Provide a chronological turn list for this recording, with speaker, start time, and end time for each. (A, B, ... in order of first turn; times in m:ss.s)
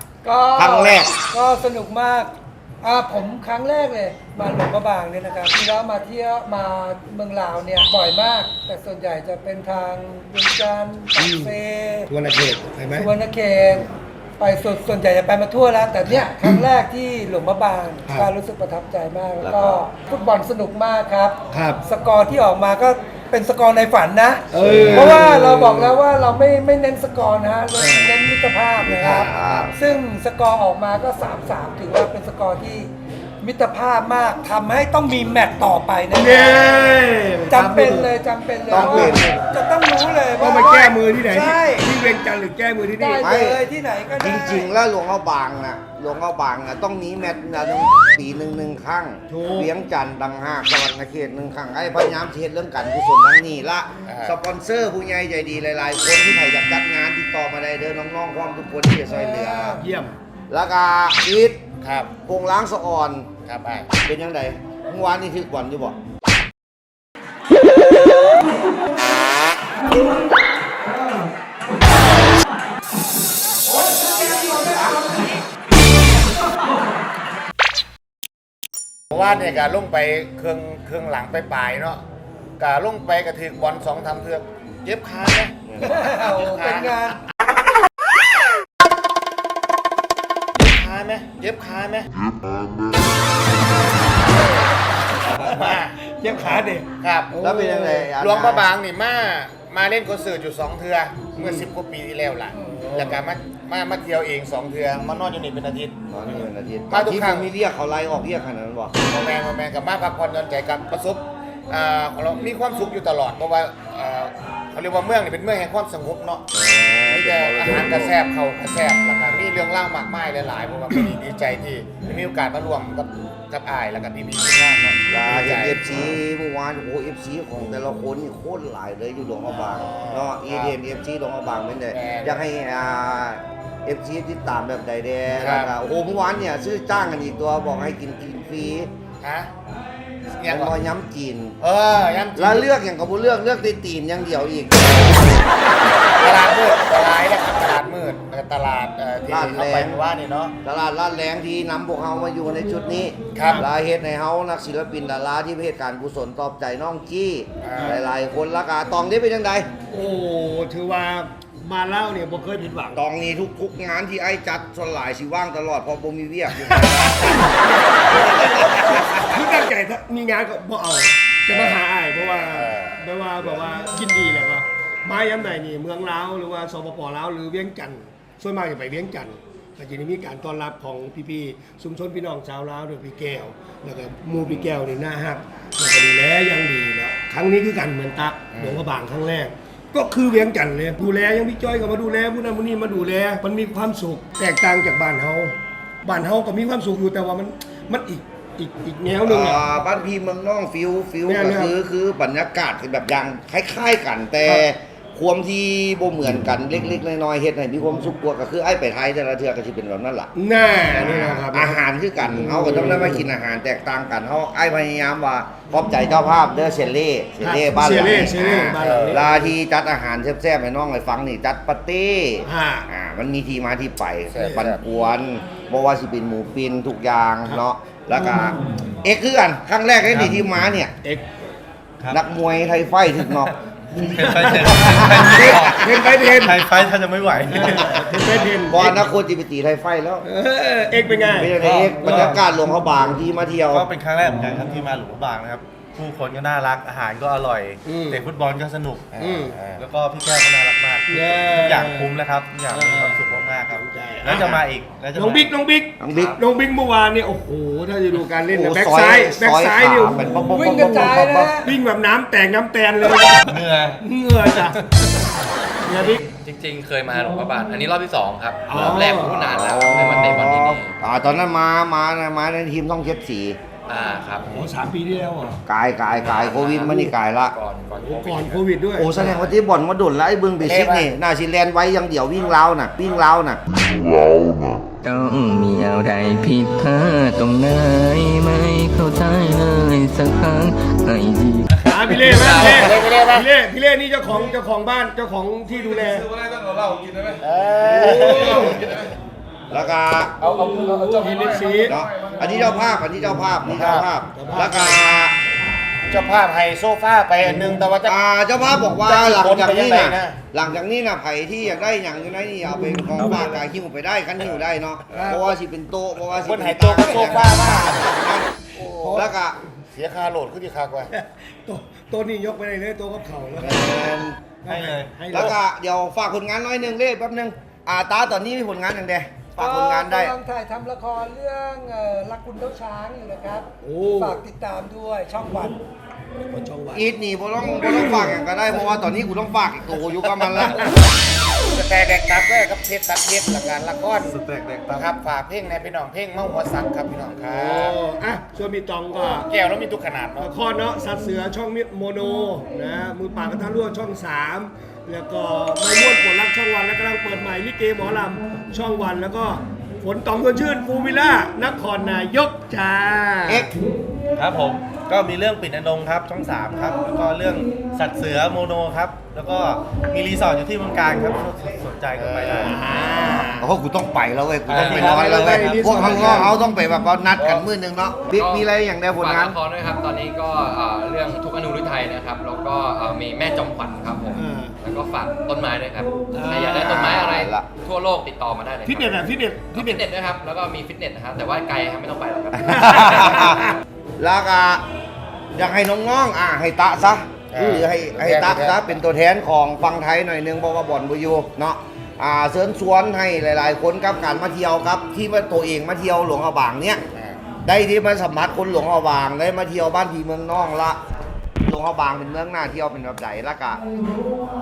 0:00.2-0:12.1 A
0:00.6-0:01.1 B
0:11.2-0:11.5 C
0:12.1-0:13.1 C
0:13.0-0:41.9 A
0:19.4-0:19.8 B
0:21.5-0:21.8 C
0:24.5-0:26.0 C
0:24.6-0:25.2 B
0:27.8-0:28.1 C
0:28.9-0:29.7 B
0:29.0-0:29.6 C
0:36.1-0:38.1 C
0:38.7-0:39.4 C
0:38.7-0:39.3 B
0:40.4-0:43.4 C
0:43.0-0:44.7 A
0:43.2-0:59.8 B
0:49.3-0:49.7 C
0:54.1-0:54.4 D
0:59.1-0:59.8 A
0:59.8-1:00.2 C
1:00.5-1:01.6 B
1:01.8-1:02.2 D
1:02.2-1:03.3 B
1:03.4-1:03.9 D
1:04.0-1:06.0 B
1:14.1-1:14.9 A
1:19.1-1:22.0 D
1:22.6-1:27.1 D
1:25.8-1:27.2 A
1:30.6-1:32.1 D
1:34.3-1:34.7 D
1:35.4-1:38.1 C
1:35.4-1:35.9 D
1:37.0-1:37.3 D
1:37.4-1:38.7 B
1:38.1-1:46.0 D
1:41.4-1:41.7 C
1:42.7-1:43.2 C
1:46.1-1:48.9 B
1:46.9-1:47.5 D
1:49.0-1:56.4 D
1:56.5-1:58.1 B
1:57.1-2:06.1 D
2:05.1-2:18.9 B
2:09.8-2:10.8 D
2:11.9-2:12.4 D
2:15.4-2:15.7 D
2:19.2-2:19.5 D
2:20.3-2:20.7 D
2:20.5-2:21.6 B
2:21.6-2:22.6 D
2:22.4-2:25.5 B
2:26.2-2:30.6 D
2:29.3-2:30.0 B
2:30.6-2:39.7 B
2:33.3-2:33.6 D
2:37.6-2:38.0 D
2:37.7-2:38.0 C
2:39.9-2:43.0 C
2:42.9-2:46.8 B
2:46.6-3:19.6 C
2:51.5-2:53.0 D
3:08.5-3:08.8 D
3:19.3-3:30.3 B
3:21.3-3:21.7 C
3:30.4-3:31.8 C
3:30.9-3:50.9 B
3:32.4-3:33.2 C
3:37.4-3:39.5 C
3:38.8-3:39.2 D
3:42.4-3:42.9 C
3:44.3-3:44.7 D
3:44.4-3:44.8 C
3:50.1-3:50.3 E
3:52.1-3:53.5 B
3:54.0-3:56.9 C
3:54.0-3:58.6 E
3:55.2-3:55.8 B
3:57.5-3:59.1 C
3:58.7-4:00.3 B
4:00.2-4:02.3 C
4:01.4-4:03.9 B
4:02.1-4:02.4 E
4:03.7-4:15.5 E
4:07.9-4:08.3 C
4:09.2-4:09.6 C
4:09.5-4:09.8 D
4:11.1-4:12.1 C
4:12.7-4:14.5 C
4:14.4-4:14.6 B
4:15.1-4:24.8 C
4:16.0-4:16.4 B
4:16.1-4:16.4 F
4:18.5-4:21.5 B
4:20.5-4:21.7 A
4:23.5-4:24.0 E
4:25.9-4:26.2 C
4:25.9-4:30.9 F
4:28.7-4:29.5 C
4:29.4-4:33.6 B
4:33.9-4:34.7 F
4:34.5-4:35.6 C
4:35.7-4:37.6 B
4:36.2-4:38.6 F
4:38.0-4:39.5 C
4:39.0-4:43.6 B
4:40.6-4:41.1 D
4:45.0-4:53.0 G
4:51.8-4:56.3 C
4:52.5-4:53.5 D
4:57.4-4:58.7 D
4:58.1-4:58.9 C
4:58.3-4:58.7 E
4:59.7-5:00.4 B
5:00.4-5:01.2 D
5:01.2-5:02.0 C
5:01.9-5:05.4 B
5:03.7-5:04.1 D
5:04.3-5:05.0 C
5:06.1-5:08.2 D
5:08.0-5:18.5 B
5:09.0-5:10.4 D
5:13.2-5:13.5 C
5:15.1-5:15.6 C
5:16.4-5:18.1 D
5:18.8-5:19.4 C
5:19.1-5:19.6 B
5:19.9-5:21.1 D
5:21.1-5:25.6 C
5:23.6-5:24.4 B
5:24.7-5:25.3 E
5:25.3-5:30.4 B
5:29.6-5:35.8 A
5:33.8-5:34.4 C
5:36.5-5:37.1 C
5:36.9-5:40.9 B
5:37.7-5:38.4 C
5:40.6-5:40.9 C
5:41.6-5:44.4 D
5:44.3-5:45.1 E
5:44.9-5:48.0 D
5:47.4-5:49.5 C
5:49.4-5:50.5 D
5:50.4-6:03.8 C
6:03.5-6:03.7 B
6:04.4-6:12.8 E
6:12.2-6:12.7 D
6:12.5-6:13.7 C
6:13.6-6:19.6 B
6:14.7-6:16.4 E
6:14.8-6:16.6 C
6:18.3-6:33.6 F
6:24.3-6:24.8 C
6:26.3-6:26.9 C
6:26.8-6:27.7 B
6:28.8-6:30.1 C
6:32.7-6:33.6 B
6:34.2-6:34.8 B
6:35.5-6:47.0 B
6:37.5-6:38.8 D
6:47.1-6:47.4 D
6:47.6-6:51.0 B
6:51.6-6:53.8 B